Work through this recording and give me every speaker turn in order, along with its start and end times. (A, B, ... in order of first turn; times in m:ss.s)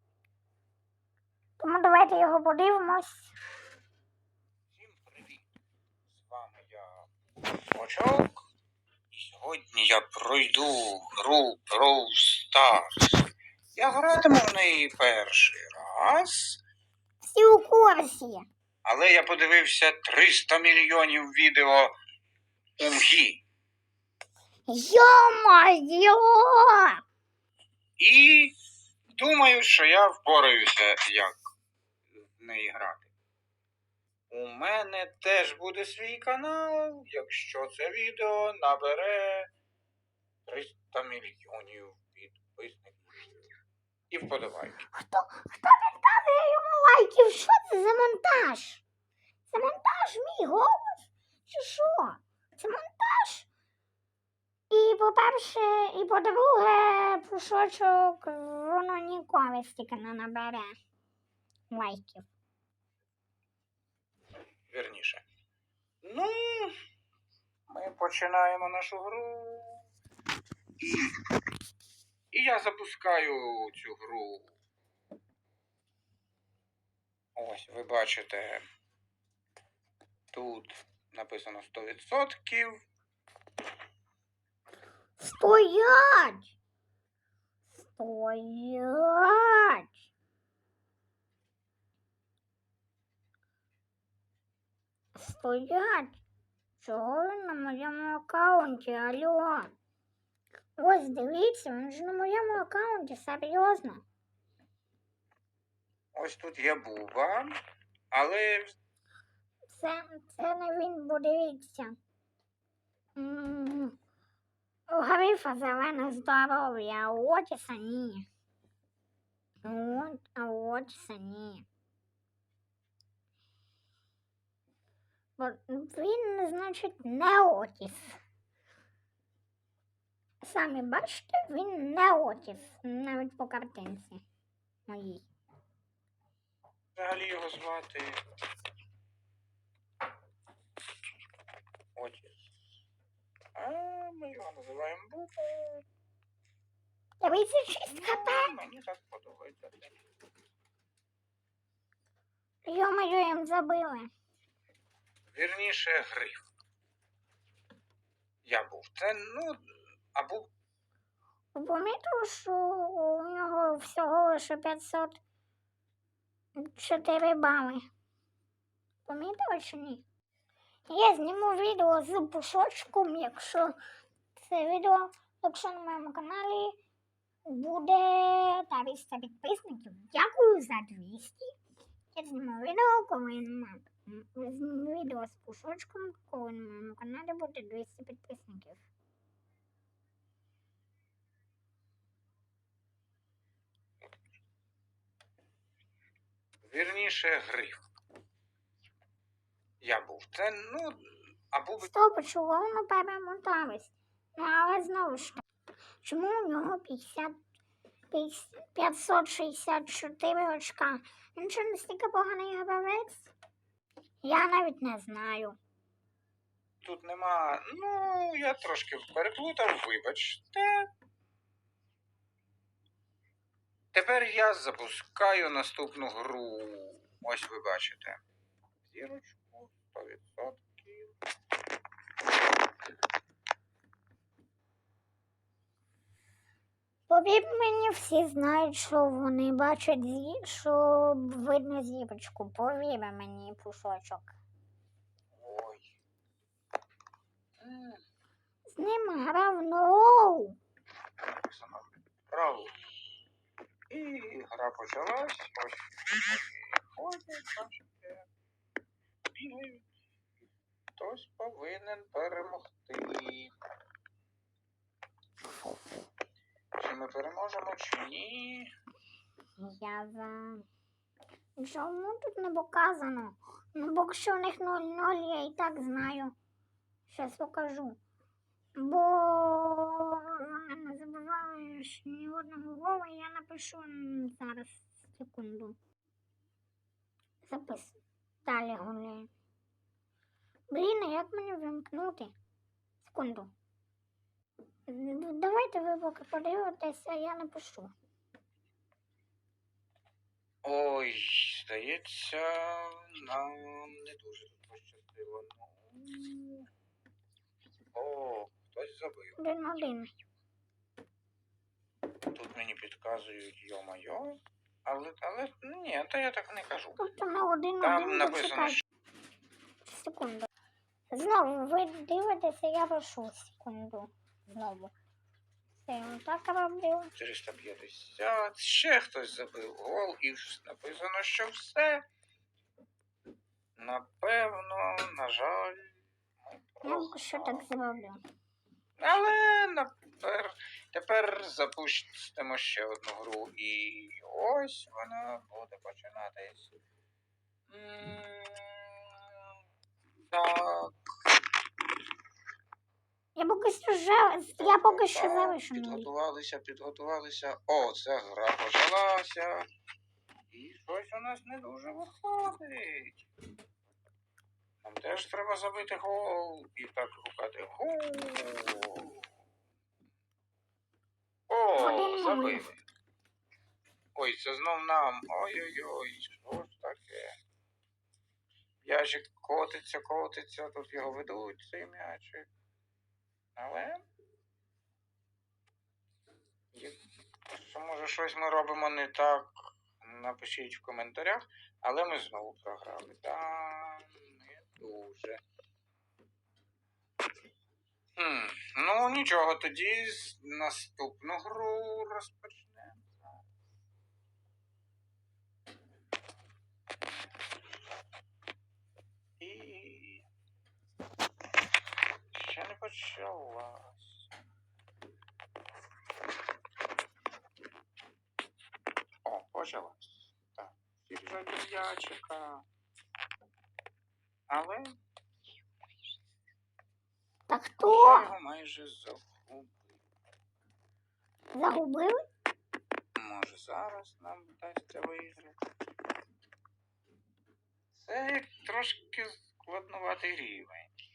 0:01.6-0:03.3 A
0:04.7-0:05.5 B
0:06.1-0:08.4 B
0:09.1-0:16.6 B
0:17.2-0:18.5 A
0:18.8-0:21.9 B
0:22.8-0:23.4 B
0:24.7-0:27.0 A
0:28.0-0:28.6 B
0:29.2-0:31.4 B
0:32.1-0:33.1 B
0:34.3-0:39.5 B
0:40.4-0:43.4 B
0:44.1-0:44.9 B
0:44.9-0:48.8 A
0:49.5-0:53.5 A
0:54.7-1:00.7 A
1:01.7-1:02.3 A
1:04.7-1:05.2 B
1:06.0-1:06.8 B
1:07.7-1:09.9 B
1:10.8-1:11.2 B
1:12.3-1:14.5 B
1:17.4-1:18.6 B
1:20.3-1:22.8 B
1:25.2-1:26.5 A
1:27.7-1:30.0 A
1:35.1-1:36.2 A
1:36.8-1:39.7 A
1:40.8-1:44.0 A
1:46.1-1:47.5 B
1:48.1-1:48.8 B
1:49.7-1:52.0 A
1:53.2-1:53.9 A
1:54.9-1:58.2 A
1:59.6-2:01.6 A
2:05.4-2:08.2 A
2:10.4-2:14.2 A
2:14.9-2:15.2 A
2:16.9-2:18.2 B
2:22.0-2:22.5 B
2:23.6-2:25.8 B
2:27.2-2:28.5 A
2:27.9-2:30.0 B
2:32.6-2:34.1 A
2:35.3-2:36.5 B
2:38.4-2:40.5 B
2:41.5-2:45.2 A
2:46.6-2:47.8 A
2:49.0-2:50.0 A
2:50.9-2:53.8 A
2:54.4-2:56.8 A
2:57.5-3:01.6 A
3:02.1-3:08.8 A
3:16.6-3:17.8 B
3:19.8-3:21.9 B
3:21.8-3:25.4 A
3:26.0-3:27.4 A
3:28.1-3:33.3 A
3:34.2-3:35.6 A
3:36.8-3:40.9 B
3:43.9-3:48.2 B
3:48.8-3:51.1 B
3:57.1-4:04.3 A
4:05.3-4:05.9 B
4:07.6-4:08.0 B
4:08.7-4:10.6 A
4:11.2-4:12.7 B
4:13.9-4:18.3 B
4:19.3-4:19.9 B
4:21.0-4:23.5 B
4:26.8-4:28.7 B
4:29.6-4:30.6 A
4:31.6-4:36.3 A
4:37.1-4:38.0 A
4:38.8-4:45.8 A
4:47.4-4:49.3 A
4:50.7-4:52.3 A
4:53.0-4:53.5 A
4:54.9-4:57.9 A
5:00.6-5:06.7 B
5:07.9-5:09.4 B
5:09.4-5:10.1 A
5:12.3-5:17.0 B
5:17.0-5:18.8 A
5:17.8-5:18.8 B
5:19.8-5:20.5 A
5:21.1-5:24.9 A
5:25.8-5:27.1 A
5:27.2-5:32.0 B
5:33.8-5:37.7 B
5:36.8-5:38.2 A
5:39.0-5:46.8 B
5:47.7-5:49.5 B
5:50.3-5:51.0 B
5:53.4-5:56.1 A
5:54.6-5:59.7 B
6:00.5-6:03.2 B
6:04.8-6:09.2 B
6:11.5-6:12.8 B
6:11.7-6:12.7 A
6:14.2-6:17.3 B
6:18.8-6:22.5 B
6:23.6-6:24.0 B
6:26.7-6:35.4 B
6:38.2-6:43.4 B
6:49.4-6:50.2 B
6:52.3-6:54.4 B
6:59.2-7:02.6 B
7:04.5-7:05.0 B
7:07.5-7:08.3 A
7:07.8-7:10.0 B
7:11.5-7:12.2 A
7:13.2-7:15.6 B
7:17.9-7:20.9 B